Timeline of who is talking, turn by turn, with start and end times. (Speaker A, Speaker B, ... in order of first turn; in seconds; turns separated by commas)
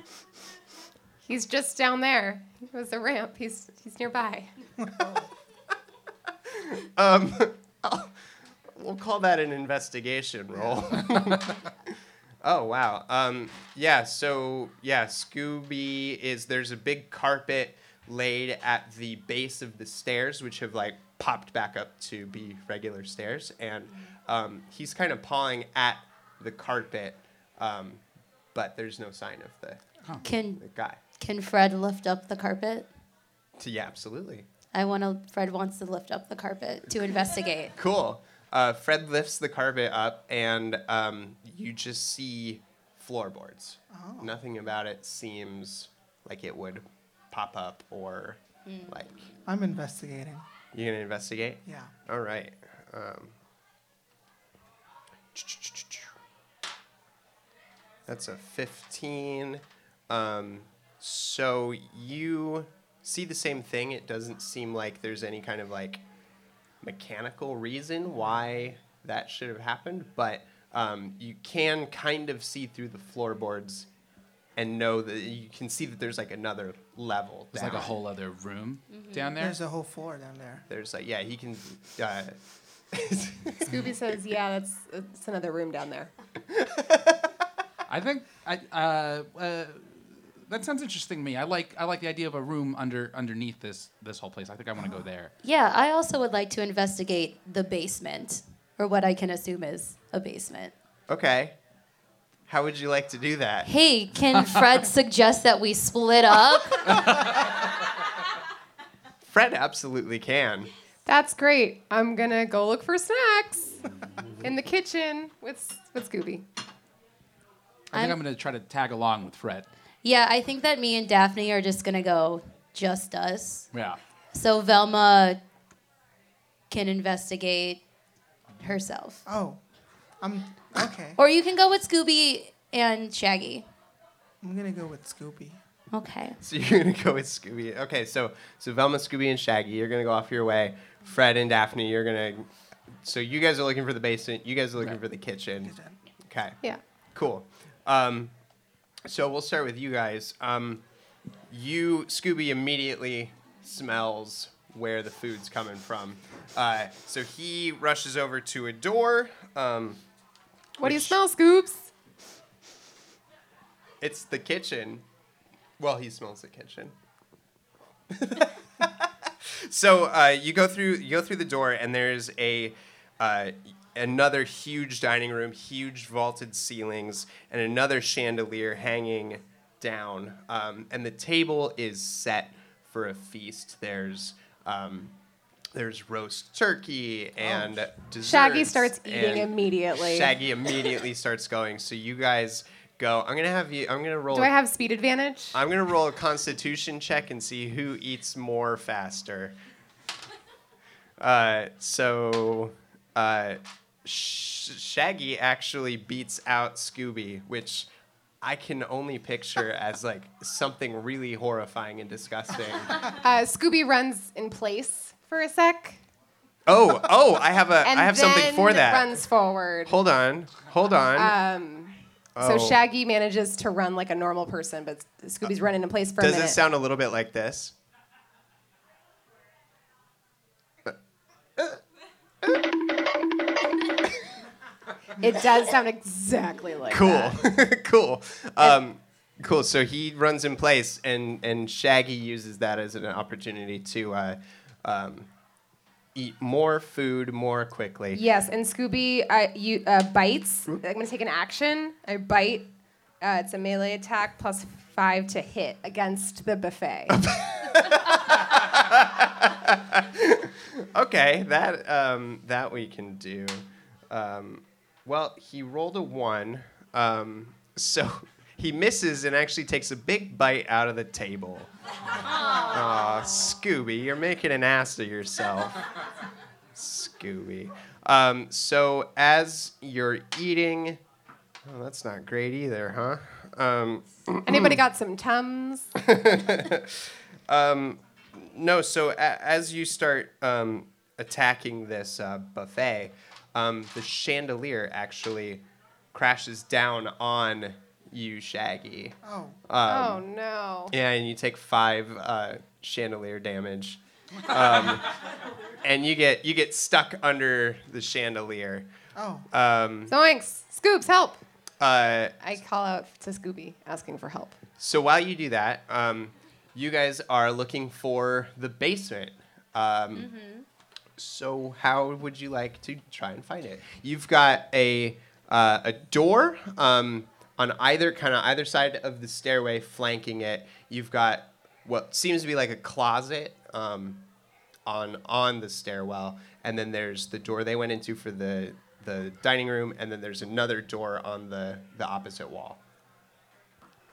Speaker A: 1.2-4.5, Speaker B: 4.8-5.3, Speaker C: 6.5-8.1, Speaker C: 8.7-28.0, Speaker C: 28.5-29.8, Speaker D: 30.2-30.6, Speaker C: 30.6-31.0, Speaker D: 31.2-32.9, Speaker C: 33.6-34.5, Speaker D: 34.7-37.8, Speaker C: 37.8-49.3, Speaker B: 43.9-44.3, Speaker B: 49.5-50.4, Speaker C: 50.7-53.3, Speaker B: 51.7-51.9, Speaker C: 55.4-56.1, Speaker C: 58.1-66.0, Speaker C: 66.8-73.9, Speaker C: 74.6-77.9, Speaker E: 77.5-79.6, Speaker D: 78.9-79.3, Speaker B: 79.4-80.7, Speaker C: 80.7-82.4, Speaker C: 82.9-83.8, Speaker A: 83.7-86.1, Speaker C: 86.5-87.3, Speaker E: 87.9-95.3, Speaker B: 94.8-95.0, Speaker D: 95.4-100.7, Speaker C: 101.1-101.6, Speaker C: 102.5-103.7, Speaker D: 103.7-107.1, Speaker E: 106.9-107.4, Speaker C: 109.2-110.7, Speaker A: 111.1-113.8, Speaker A: 114.4-116.5, Speaker E: 117.9-119.7, Speaker D: 120.0-123.7, Speaker E: 123.7-124.0, Speaker D: 124.3-125.4, Speaker D: 126.7-127.8, Speaker D: 128.6-129.2, Speaker B: 129.3-129.6, Speaker B: 130.2-131.2, Speaker D: 131.2-133.7, Speaker B: 134.4-135.6, Speaker D: 135.9-136.4, Speaker C: 136.4-142.5, Speaker C: 143.0-146.6, Speaker B: 145.6-145.9, Speaker C: 147.1-148.3, Speaker C: 149.1-150.8, Speaker C: 151.5-160.0, Speaker A: 160.8-161.9, Speaker C: 160.8-161.2, Speaker C: 164.0-165.1, Speaker C: 165.8-166.9, Speaker C: 168.1-185.1, Speaker C: 185.7-194.5, Speaker A: 188.2-190.3, Speaker A: 194.3-195.6, Speaker C: 195.5-199.6, Speaker C: 201.2-207.9, Speaker C: 208.4-213.1, Speaker A: 213.1-216.0, Speaker C: 216.7-219.2, Speaker A: 217.8-219.9, Speaker C: 219.9-221.4, Speaker A: 221.2-226.6, Speaker C: 222.4-222.8, Speaker C: 226.2-227.8, Speaker A: 235.2-237.4, Speaker C: 236.9-245.3, Speaker C: 246.2-248.2, Speaker A: 248.1-252.7, Speaker A: 253.2-257.2, Speaker C: 257.1-271.7, Speaker C: 272.5-275.8, Speaker C: 276.7-281.0, Speaker C: 281.6-284.8, Speaker A: 284.4-285.9, Speaker C: 286.0-300.2, Speaker B: 299.2-299.6, Speaker A: 299.9-300.9, Speaker C: 300.9-305.2, Speaker C: 305.8-308.9, Speaker B: 309.2-309.4, Speaker C: 309.5-310.1, Speaker A: 310.1-311.4, Speaker C: 311.8-312.4, Speaker A: 312.4-314.6, Speaker C: 314.8-320.3, Speaker D: 320.1-320.6, Speaker C: 321.2-334.2, Speaker C: 334.9-342.8